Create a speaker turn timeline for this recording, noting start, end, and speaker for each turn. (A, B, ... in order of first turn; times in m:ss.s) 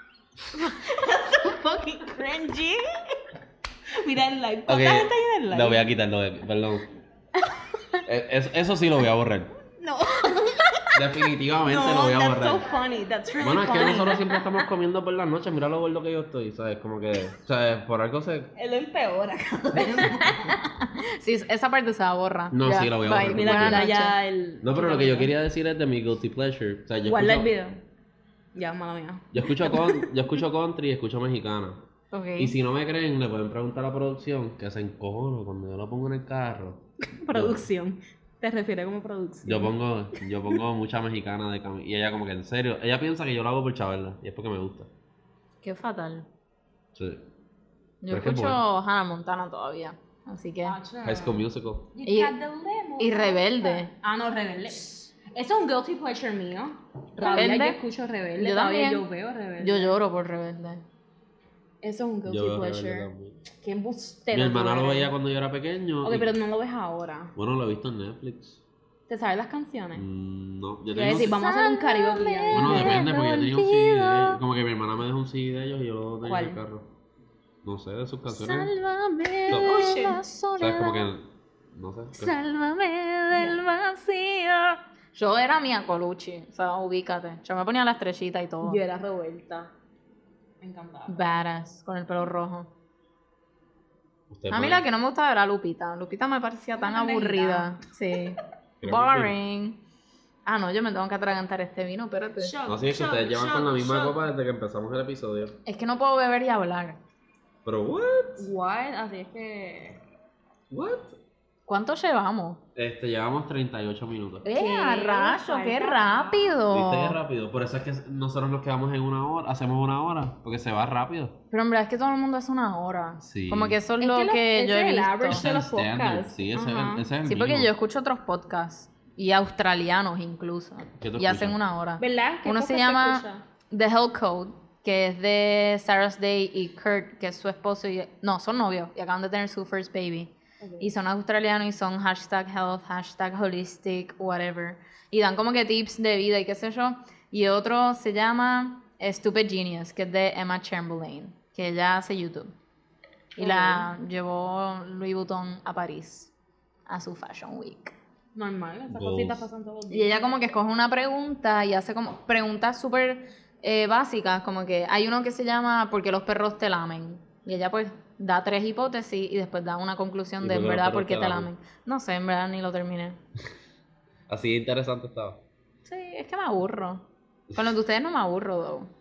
0:00.5-0:03.2 A
0:04.0-0:05.9 A
0:04.7-0:06.9 B
0:08.0-0:09.5 B
0:09.8-0:14.7 A
0:10.9-0:12.7 B
0:13.4-0:18.5 B
0:18.6-0:20.7 A
0:20.8-0:24.1 C
0:22.5-0:23.9 B
0:23.2-0:25.3 A
0:24.6-0:27.5 B
0:27.0-0:27.8 A
0:28.5-0:30.1 A
0:29.3-0:31.9 B
0:32.1-0:32.5 C
0:32.4-0:37.6 B
0:37.1-0:40.6 A
0:39.4-0:44.9 B
0:45.6-0:46.3 C
0:46.9-0:47.2 B
0:48.0-0:50.7 C
0:48.1-0:48.6 B
0:50.6-1:00.0 A
0:51.0-0:51.9 B
0:52.0-0:52.3 C
0:53.0-0:53.9 C
0:57.2-0:57.8 C
0:58.4-0:59.0 C
0:59.6-1:00.8 C
1:01.8-1:05.1 A
1:02.2-1:03.4 B
1:04.3-1:06.3 B
1:06.0-1:07.3 A
1:07.4-1:08.6 B
1:09.1-1:10.0 A
1:09.9-1:11.4 B
1:10.9-1:13.0 A
1:11.1-1:14.4 C
1:12.5-1:16.9 B
1:16.2-1:16.6 A
1:17.6-1:18.7 B
1:18.3-1:21.1 C
1:19.5-1:19.8 B
1:19.5-1:20.2 A
1:20.6-1:22.3 B
1:22.1-1:28.8 C
1:23.3-1:23.6 A
1:28.6-1:29.7 A
1:30.6-1:31.6 A
1:31.1-1:32.7 C
1:34.3-1:34.8 B
1:34.5-1:39.8 C
1:36.8-1:38.2 A
1:38.8-1:39.3 B
1:40.4-1:42.5 C
1:42.4-1:44.2 A
1:42.6-1:45.6 B
1:45.6-1:47.0 C
1:47.6-1:48.5 B
1:48.4-1:50.0 A
1:50.7-1:51.2 B
1:51.7-1:52.6 C
1:52.8-1:54.4 B
1:54.4-1:57.2 C
1:54.5-1:56.6 A
1:56.7-2:01.4 B
2:01.5-2:05.4 C
2:03.2-2:03.8 B
2:04.0-2:07.0 A
2:05.3-2:07.7 B
2:07.2-2:32.5 C
2:11.0-2:11.6 B
2:12.0-2:13.4 A
2:20.6-2:20.9 A
2:33.4-2:36.3 C
2:33.4-2:33.9 A
2:36.9-2:37.9 C
2:38.3-2:40.2 A
2:38.9-2:39.5 B
2:39.9-2:53.2 C
2:50.4-2:51.5 B
2:54.3-2:55.4 B
2:55.8-2:58.9 C